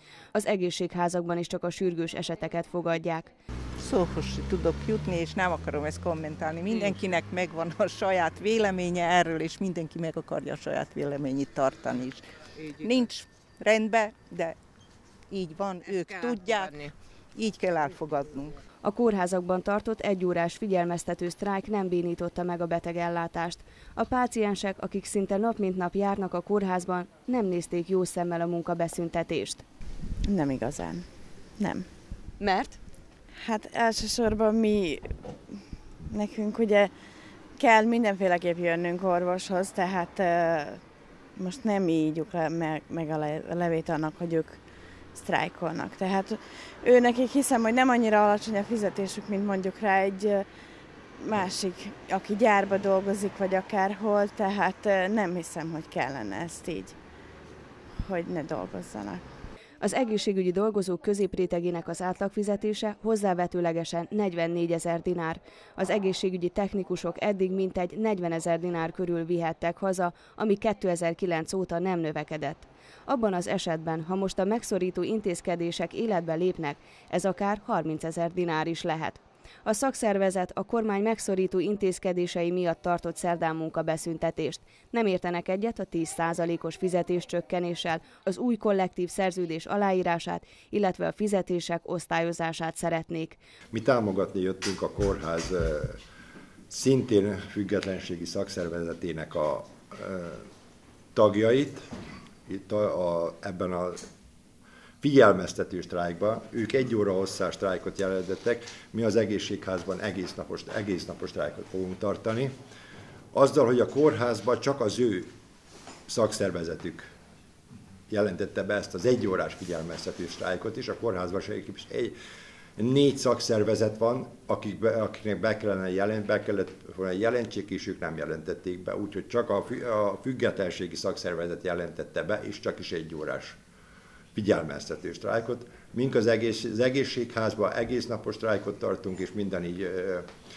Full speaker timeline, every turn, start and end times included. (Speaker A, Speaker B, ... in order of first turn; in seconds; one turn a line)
Speaker A: 0.3-3.3
Speaker B: 3.8-14.5
Speaker B: 15.3-18.6
Speaker A: 18.8-29.6
Speaker C: 30.2-31.1
Speaker C: 31.6-31.9
Speaker A: 32.4-32.8
Speaker C: 33.4-36.9
Speaker C: 37.6-40.8
Speaker C: 41.4-44.6
Speaker C: 45.1-50.4
Speaker C: 51.2-56.9
Speaker C: 58.0-59.2
Speaker A: 59.8-93.4
Speaker D: 93.7-96.0
Speaker D: 96.7-100.4
Speaker D: 101.1-101.9
Speaker D: 102.5-104.0
Speaker D: 105.0-112.5
Speaker D: 113.3-115.3
Speaker D: 116.1-117.1
Speaker D: 118.1-122.1
Speaker D: 122.8-133.6
Speaker D: 134.3-140.3